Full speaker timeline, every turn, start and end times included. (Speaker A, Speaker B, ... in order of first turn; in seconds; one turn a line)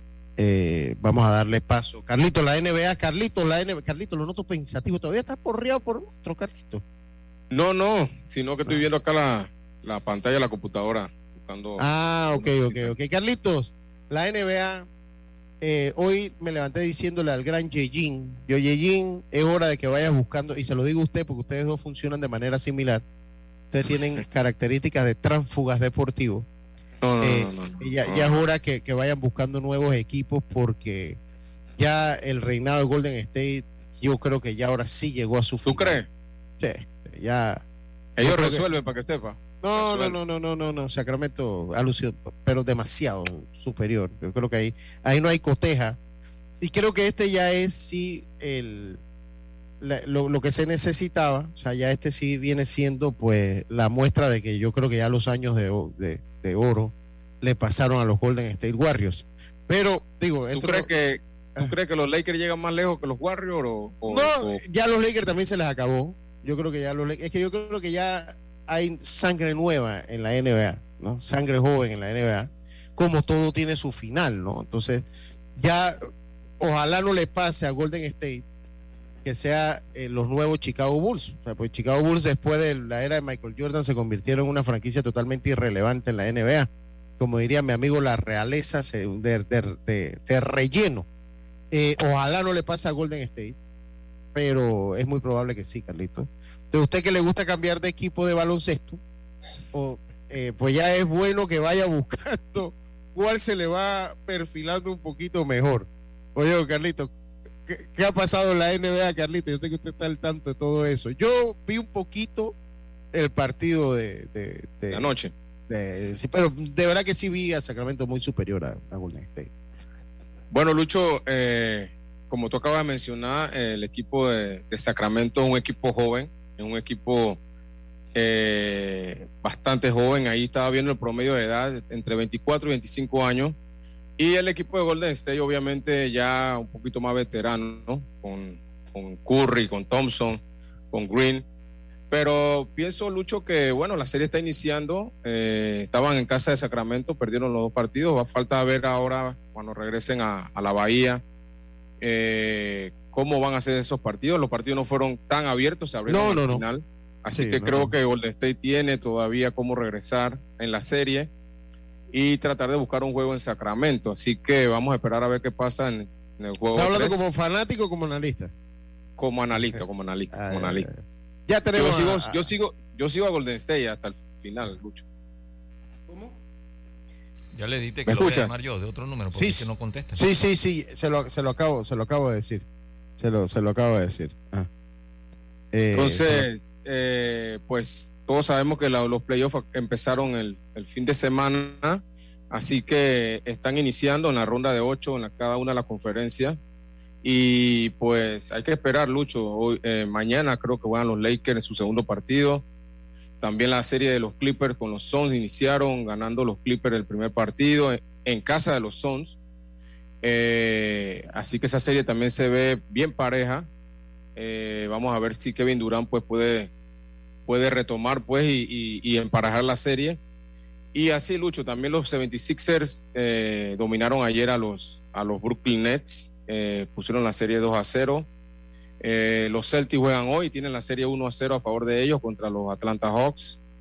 Speaker A: 0.4-6.8
Speaker B: 7.5-11.8
Speaker A: 11.8-14.9
Speaker B: 12.3-12.9
Speaker A: 15.6-23.0
Speaker A: 23.7-26.5
Speaker B: 27.0-28.3
Speaker A: 27.2-31.2
Speaker A: 31.8-36.0
Speaker B: 35.7-36.1
Speaker A: 36.6-37.6
Speaker B: 38.2-40.2
Speaker A: 38.2-38.6
Speaker A: 39.6-46.0
Speaker A: 46.6-49.0
Speaker A: 49.8-60.9
Speaker B: 60.5-64.6
Speaker A: 64.1-78.4
Speaker A: 79.2-91.1
Speaker A: 91.7-93.6
Speaker A: 94.3-99.0
Speaker A: 99.7-107.1
Speaker A: 107.7-112.5
Speaker A: 113.1-115.1
Speaker B: 114.9-115.3
Speaker A: 115.7-119.5
Speaker B: 120.5-127.4
Speaker B: 128.2-133.6
Speaker B: 134.2-140.4
Speaker B: 140.9-141.4
Speaker B: 142.1-151.2
Speaker B: 152.0-161.3
Speaker A: 156.1-156.7
Speaker A: 157.3-157.9
Speaker B: 162.1-167.2
Speaker A: 166.8-168.5
Speaker B: 169.2-170.9
Speaker A: 169.6-172.5
Speaker B: 171.7-175.1
Speaker A: 176.1-176.3
Speaker C: 177.5-180.3
Speaker B: 178.1-178.5
Speaker A: 179.3-182.7
Speaker A: 183.2-184.7
Speaker A: 185.7-186.5
Speaker B: 185.9-196.6
Speaker B: 197.2-202.6
Speaker B: 203.4-209.4
Speaker B: 210.2-213.7
Speaker B: 214.4-216.7
Speaker B: 217.5-220.2
Speaker B: 220.9-228.3
Speaker B: 229.0-233.6